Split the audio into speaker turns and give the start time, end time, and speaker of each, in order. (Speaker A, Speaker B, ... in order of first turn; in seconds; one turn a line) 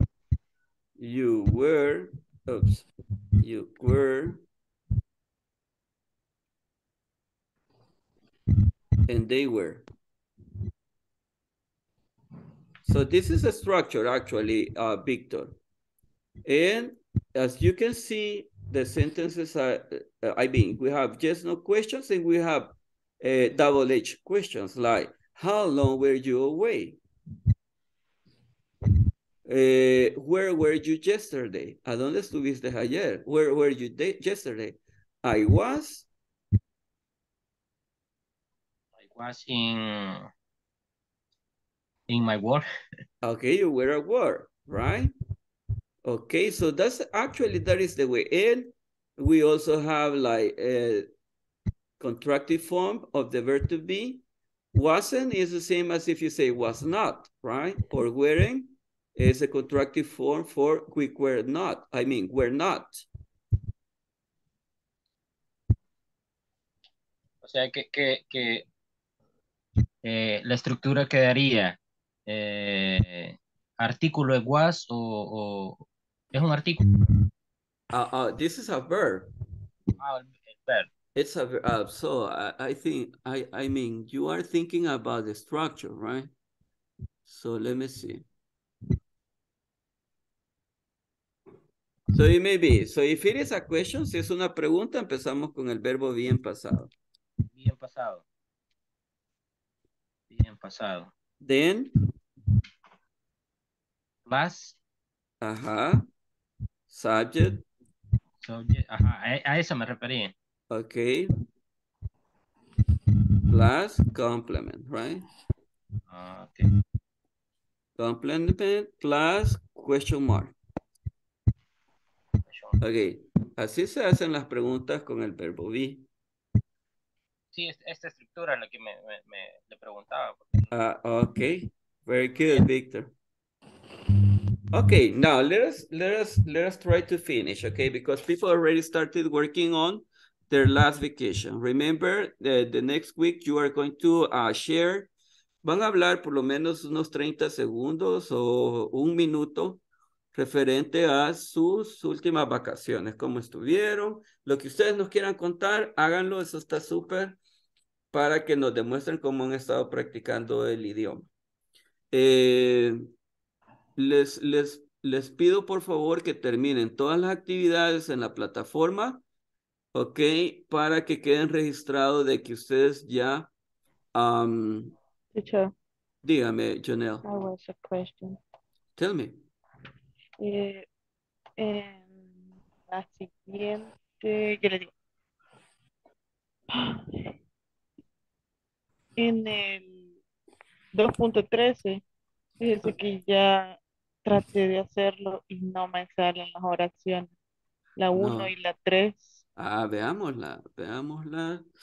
Speaker A: 1.0-2.9
Speaker A: 3.4-4.4
Speaker A: 9.1-9.8
Speaker A: 12.9-15.6
Speaker A: 16.4-27.0
Speaker A: 29.5-36.1
Speaker B: 39.0-40.3
Speaker B: 42.1-42.7
Speaker A: 43.2-45.1
Speaker A: 46.0-51.1
Speaker A: 52.0-54.2
Speaker A: 54.7-63.0
Speaker B: 67.4-68.7
Speaker B: 70.0-71.8
Speaker B: 72.3-75.8
Speaker B: 76.3-76.8
Speaker A: 77.9-79.3
Speaker B: 80.0-80.9
Speaker A: 81.2-86.3
Speaker A: 87.3-88.2
Speaker A: 92.1-96.9
Speaker B: 97.5-98.2
Speaker B: 100.3-101.1
Speaker A: 101.4-101.9
Speaker B: 104.3-104.8
Speaker A: 105.4-106.1
Speaker A: 106.9-107.6
Speaker B: 108.4-110.3
Speaker A: 110.7-111.3
Speaker A: 113.5-115.2
Speaker B: 116.1-116.7
Speaker A: 118.0-120.5
Speaker B: 122.5-122.8
Speaker A: 122.8-126.0
Speaker B: 127.5-130.7
Speaker A: 130.7-133.1
Speaker A: 134.7-145.1
Speaker A: 145.6-149.8
Speaker A: 150.3-157.4
Speaker A: 158.1-161.3
Speaker A: 162.1-163.0
Speaker A: 164.0-169.2
Speaker A: 169.9-173.5
Speaker A: 174.1-175.0
Speaker C: 175.3-175.7
Speaker A: 176.2-177.2
Speaker C: 177.2-178.4
Speaker A: 179.0-179.4
Speaker C: 180.4-180.9
Speaker C: 181.6-184.9
Speaker C: 186.7-187.1
Speaker C: 189.2-190.2
Speaker C: 190.9-192.0
Speaker C: 192.6-197.3
Speaker C: 198.0-199.4
Speaker A: 198.1-198.5
Speaker A: 199.6-201.7